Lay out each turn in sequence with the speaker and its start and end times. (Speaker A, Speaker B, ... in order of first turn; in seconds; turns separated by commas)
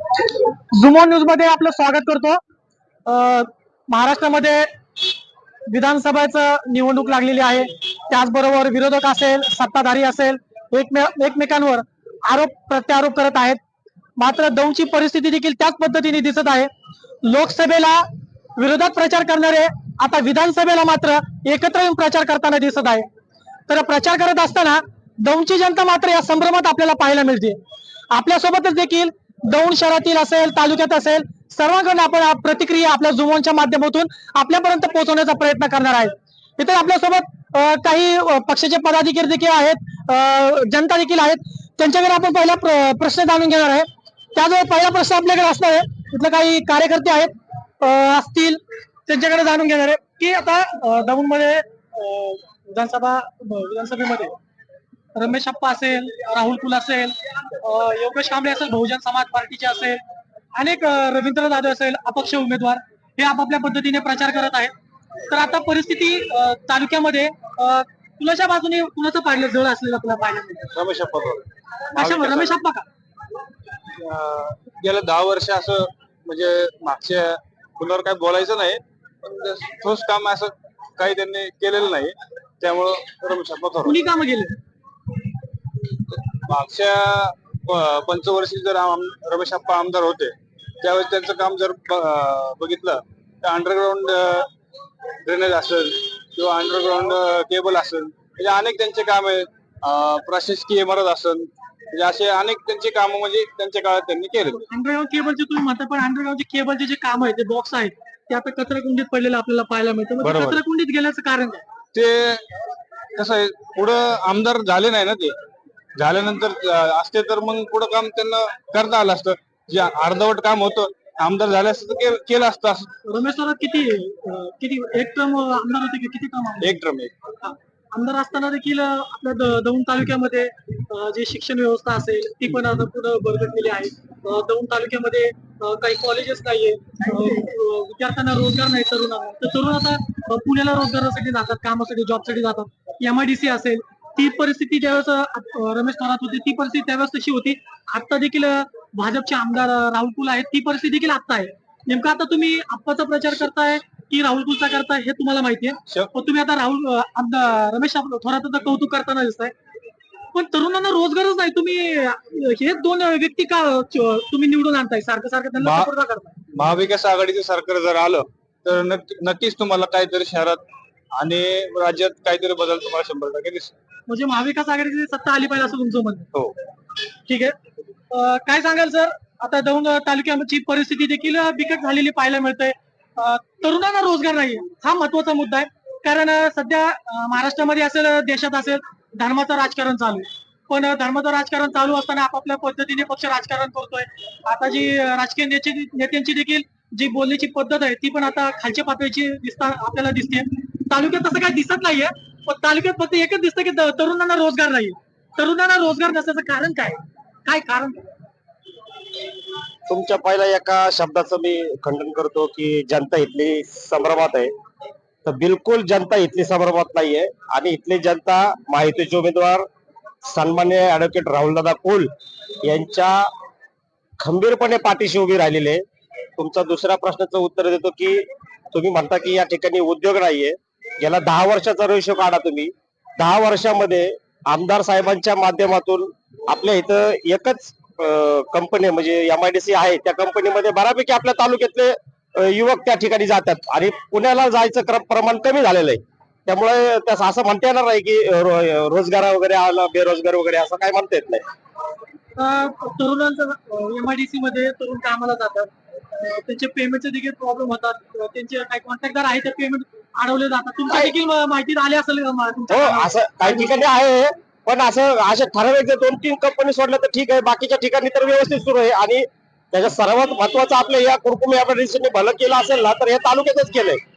Speaker A: 0.7-2.4, Speaker A: 3.1-4.7, Speaker A: 5.7-13.6, Speaker A: 14.2-16.7, Speaker A: 17.2-23.1, Speaker A: 23.7-27.6, Speaker A: 28.1-54.4, Speaker A: 55.1-60.0, Speaker A: 60.5-64.7, Speaker A: 65.3-70.7, Speaker B: 70.7-71.4, Speaker A: 72.0-72.9, Speaker B: 72.0-72.6, Speaker B: 74.0-84.0, Speaker A: 83.8-84.5, Speaker B: 86.3-94.5, Speaker B: 95.2-104.6, Speaker A: 104.7-111.6, Speaker B: 110.2-110.6, Speaker B: 111.9-112.4, Speaker B: 113.2-115.4, Speaker B: 116.0-122.9, Speaker A: 123.0-126.7, Speaker B: 126.6-127.1, Speaker A: 127.4-159.5, Speaker A: 160.3-166.4, Speaker B: 165.6-165.9, Speaker B: 166.5-170.6, Speaker B: 171.2-173.7, Speaker A: 174.1-176.3, Speaker A: 177.3-177.6, Speaker A: 178.1-208.1, Speaker C: 209.9-214.5, Speaker C: 215.2-219.7, Speaker C: 220.2-222.1, Speaker C: 222.6-223.3, Speaker C: 224.2-225.8, Speaker C: 226.4-251.4, Speaker A: 252.4-263.8, Speaker C: 262.7-274.0